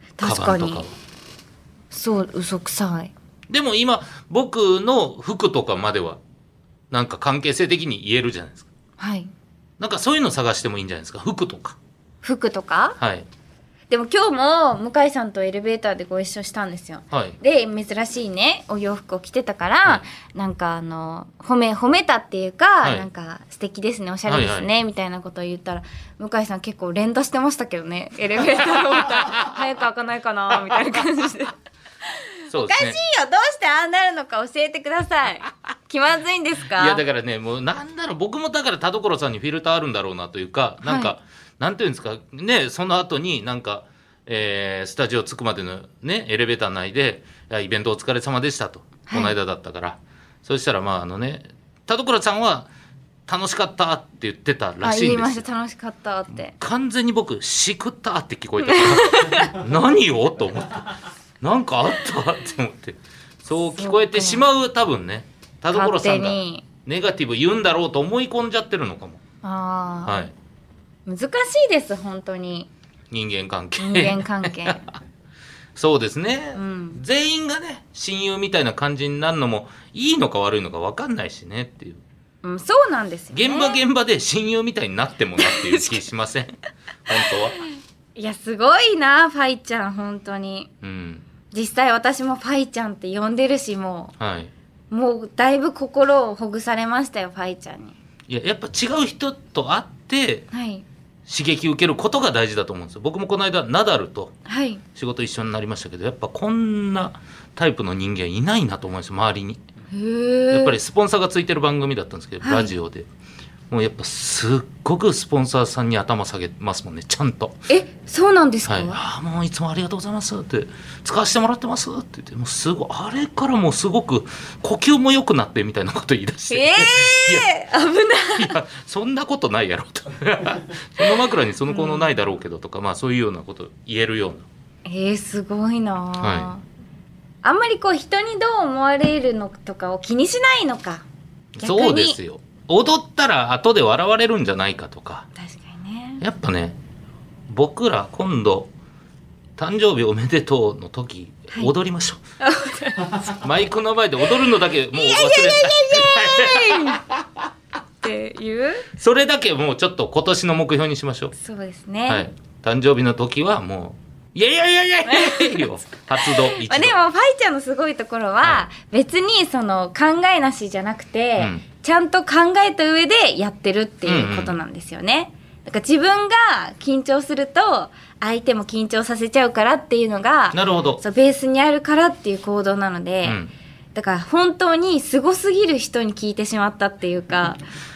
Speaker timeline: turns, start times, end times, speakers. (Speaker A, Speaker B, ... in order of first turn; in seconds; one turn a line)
Speaker A: 0.2-0.8
Speaker B: 0.2-0.9
Speaker A: 1.9-3.1
Speaker B: 3.5-6.2
Speaker B: 6.9-8.7
Speaker A: 9.0-9.3
Speaker B: 9.8-11.8
Speaker A: 12.2-13.0
Speaker B: 13.0-13.3
Speaker A: 13.9-31.5
Speaker B: 17.1-17.4
Speaker B: 22.8-23.1
Speaker B: 24.3-24.7
Speaker B: 28.9-29.4
Speaker B: 32.5-33.0
Speaker A: 32.5-37.0
Speaker B: 36.7-52.7
Speaker A: 40.8-41.1
Speaker A: 49.0-49.3
Speaker B: 53.3-55.4
Speaker A: 54.8-56.5
Speaker B: 56.5-69.2
Speaker A: 58.6-59.5
Speaker A: 63.8-64.4
Speaker A: 65.7-66.6
Speaker A: 69.4-70.2
Speaker B: 70.0-70.3
Speaker A: 71.0-72.7
Speaker B: 73.1-74.9
Speaker A: 73.8-74.9
Speaker B: 75.8-82.0
Speaker A: 76.5-77.0
Speaker A: 82.4-83.8
Speaker B: 83.3-86.5
Speaker A: 85.4-86.0
Speaker B: 87.1-87.6
Speaker A: 88.2-90.7
Speaker B: 90.8-91.3
Speaker A: 91.5-94.1
Speaker B: 94.2-94.5
Speaker A: 94.9-98.0
Speaker B: 98.3-100.5
Speaker A: 100.5-100.8
Speaker B: 101.3-104.3
Speaker A: 104.5-104.8
Speaker B: 104.9-109.6
Speaker A: 109.9-110.8
Speaker B: 110.5-113.1
Speaker A: 112.4-112.7
Speaker B: 113.7-117.7
Speaker A: 117.7-119.0
Speaker B: 118.7-127.5
Speaker A: 126.5-128.6
Speaker B: 128.3-134.4
Speaker A: 131.7-132.1
Speaker A: 134.8-136.6
Speaker B: 136.2-136.5
Speaker A: 137.4-141.0
Speaker B: 141.5-145.3
Speaker A: 141.6-142.2
Speaker A: 145.3-146.2
Speaker B: 146.2-146.8
Speaker B: 147.5-148.7
Speaker B: 149.6-152.2
Speaker A: 152.4-153.3
Speaker B: 153.2-157.2
Speaker A: 154.9-157.0
Speaker A: 158.0-158.9
Speaker B: 158.9-161.3
Speaker A: 161.3-162.3
Speaker B: 162.1-166.9
Speaker A: 165.0-165.7
Speaker A: 166.2-183.4
Speaker B: 171.4-171.6
Speaker B: 174.1-174.6
Speaker B: 180.5-181.0
Speaker B: 183.2-183.5
Speaker A: 183.9-187.6